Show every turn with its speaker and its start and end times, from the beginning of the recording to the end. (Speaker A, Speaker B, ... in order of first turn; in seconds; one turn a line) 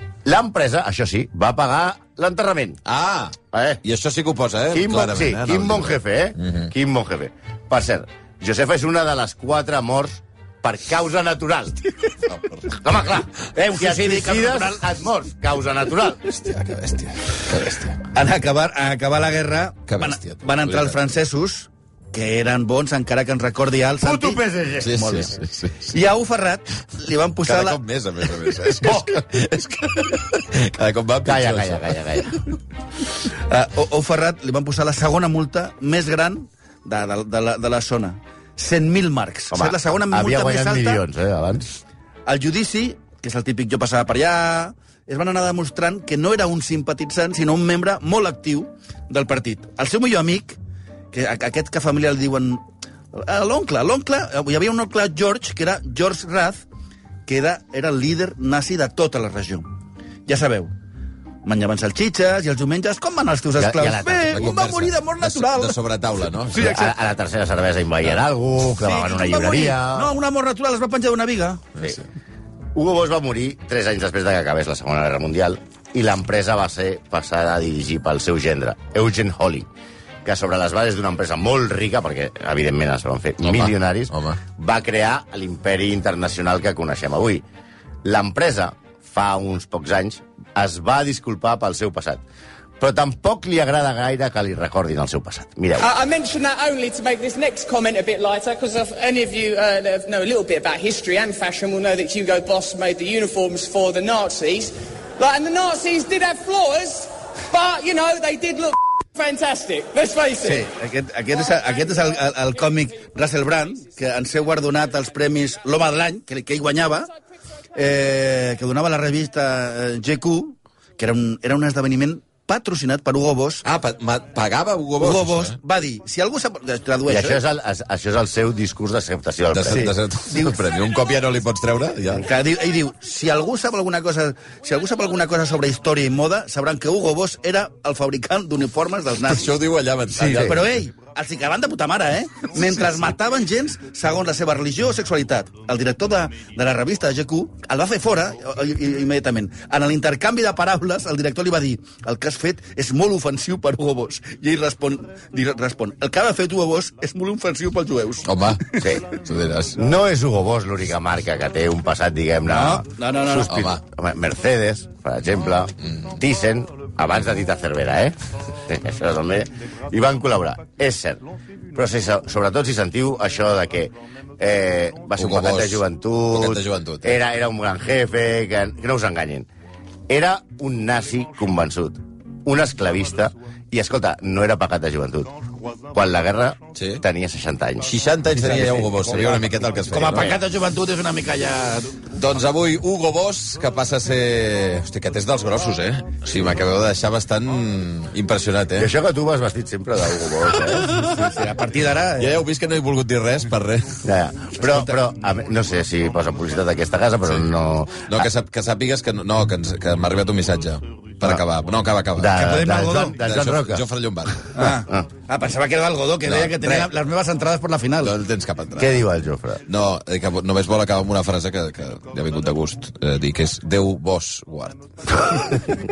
Speaker A: 0.2-2.8
Speaker B: 2.9-6.7
Speaker A: 3.5-3.8
Speaker A: 4.7-11.8
Speaker B: 12.2-12.8
Speaker A: 12.7-16.2
Speaker C: 13.5-14.9
Speaker B: 16.2-18.0
Speaker C: 18.1-24.4
Speaker B: 19.9-21.0
Speaker A: 24.0-25.2
Speaker B: 24.8-25.9
Speaker C: 24.9-25.3
Speaker C: 25.9-27.8
Speaker B: 27.5-32.0
Speaker C: 28.7-28.9
Speaker A: 28.8-29.2
Speaker A: 31.2-32.4
Speaker C: 33.5-41.0
Speaker A: 39.5-41.8
Speaker C: 42.2-50.6
Speaker C: 51.1-56.6
Speaker C: 57.3-59.7
Speaker C: 60.2-60.7
Speaker C: 61.4-65.8
Speaker A: 63.6-64.5
Speaker B: 64.3-66.8
Speaker C: 66.5-66.9
Speaker A: 66.5-70.1
Speaker C: 68.8-71.6
Speaker B: 71.8-72.0
Speaker A: 72.7-79.7
Speaker A: 80.2-87.4
Speaker B: 83.4-84.4
Speaker A: 88.0-92.2
Speaker A: 92.8-95.9
Speaker D: 95.8-110.7
Speaker C: 110.4-117.1
Speaker C: 117.7-123.6
Speaker B: 123.6-125.5
Speaker C: 125.0-127.4
Speaker A: 127.1-129.9
Speaker B: 129.5-132.2
Speaker C: 129.7-130.6
Speaker C: 132.2-139.5
Speaker B: 139.3-140.8
Speaker C: 140.1-158.8
Speaker B: 158.2-159.8
Speaker A: 158.8-159.1
Speaker A: 159.7-171.2
Speaker C: 162.5-163.7
Speaker B: 163.5-163.8
Speaker A: 171.7-179.5
Speaker B: 175.2-177.2
Speaker A: 180.1-185.3
Speaker A: 185.9-188.0
Speaker B: 186.7-187.0
Speaker B: 187.9-190.4
Speaker C: 188.3-192.0
Speaker A: 190.1-190.3
Speaker B: 192.1-198.9
Speaker A: 198.8-200.9
Speaker B: 200.6-201.4
Speaker C: 200.9-202.4
Speaker B: 202.2-204.0
Speaker A: 204.0-208.3
Speaker C: 204.7-205.0
Speaker B: 208.1-212.3
Speaker A: 212.2-213.9
Speaker C: 212.3-213.2
Speaker B: 213.2-214.7
Speaker C: 214.5-218.2
Speaker B: 216.2-216.9
Speaker B: 218.0-219.0
Speaker A: 218.8-219.6
Speaker B: 219.7-225.4